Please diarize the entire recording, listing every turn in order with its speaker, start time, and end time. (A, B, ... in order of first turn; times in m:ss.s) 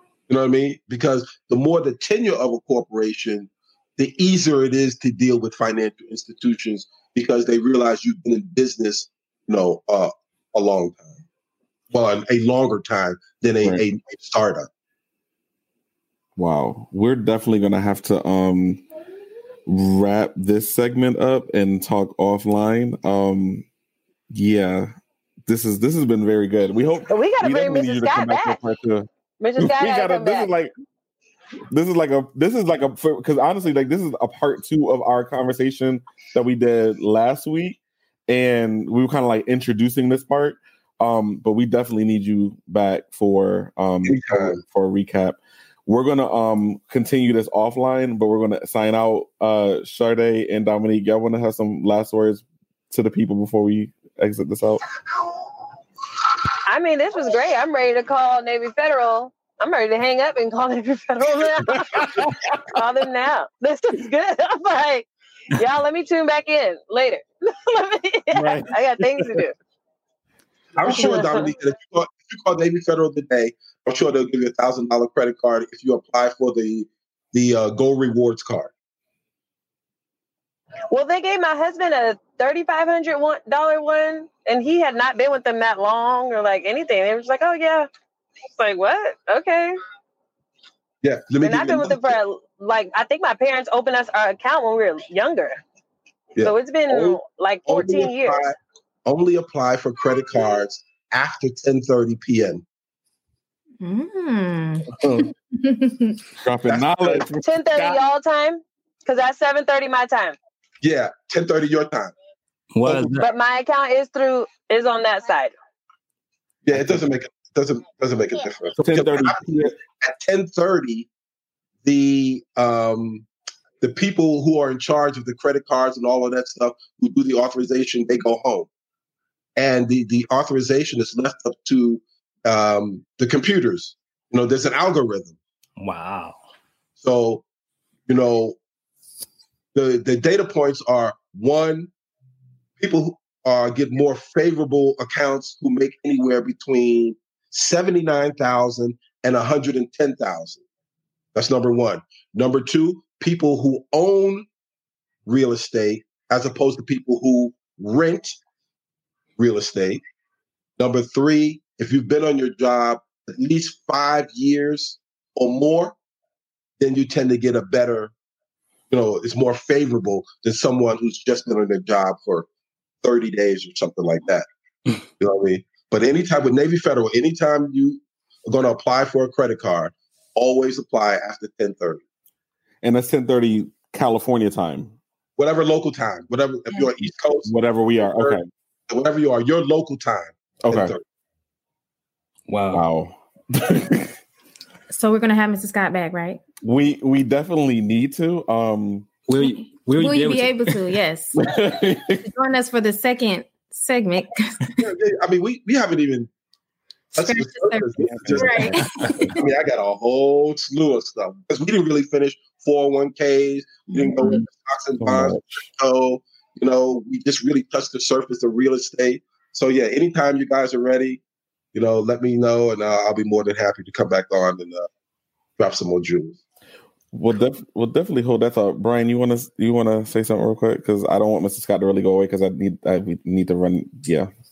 0:00.3-0:11.2 A
0:11.9-0:14.7 A
0:16.4-0:18.8 B
0:19.7-0:23.6 B
0:24.3-0:24.9 B
0:25.4-0:30.7 B
0:27.1-0:28.6 C
0:29.4-0:30.5 C
0:31.7-0:54.8 B
0:44.0-0:44.6 A
0:56.6-1:02.1 C
1:01.7-1:02.5 B
1:02.7-1:09.5 C
1:08.3-1:09.4 B
1:10.7-1:18.7 A
1:10.8-1:11.5 C
1:20.9-1:27.9 C
1:28.5-1:29.8 C
1:31.0-1:32.2 A
1:31.4-1:35.6 C
1:36.3-1:42.6 A
1:36.4-1:38.5 C
1:43.8-1:46.2 D
1:45.0-1:45.3 B
1:46.4-1:48.0 B
1:46.6-1:47.3 A
1:47.4-1:50.4 C
1:50.8-1:52.1 A
1:52.7-1:53.2 E
1:52.8-1:53.2 A
1:53.2-1:55.5 C
1:56.6-2:01.1 A
1:58.8-1:59.7 B
2:01.8-2:03.3 A
2:03.8-2:08.7 A
2:09.6-2:15.3 A
2:15.8-2:16.4 E
2:17.0-2:17.4 A
2:18.1-2:18.6 A
2:19.7-2:21.9 A
2:22.8-2:30.6 A
2:31.3-2:34.4 A
2:35.2-2:38.4 A
2:39.4-2:40.0 A
2:40.8-2:46.0 A
2:46.8-2:48.1 A
2:48.9-2:52.5 A
2:53.0-2:54.5 A
2:55.2-3:02.0 A
3:02.8-3:04.9 B
3:05.4-3:11.0 A
3:07.4-3:08.5 B
3:10.6-3:10.9 B
3:12.5-3:12.8 E
3:12.7-3:14.1 B
3:14.9-3:16.4 D
3:16.6-3:19.1 B
3:19.3-3:20.9 E
3:19.4-3:21.4 D
3:21.4-3:22.2 B
3:22.2-3:24.8 D
3:24.8-3:26.3 A
3:27.1-3:29.4 D
3:27.2-3:41.2 A
3:28.0-3:29.4 B
3:34.0-3:34.4 B
3:35.0-3:35.6 B
3:41.7-3:44.9 A
3:45.6-3:46.4 A
3:47.1-3:54.3 B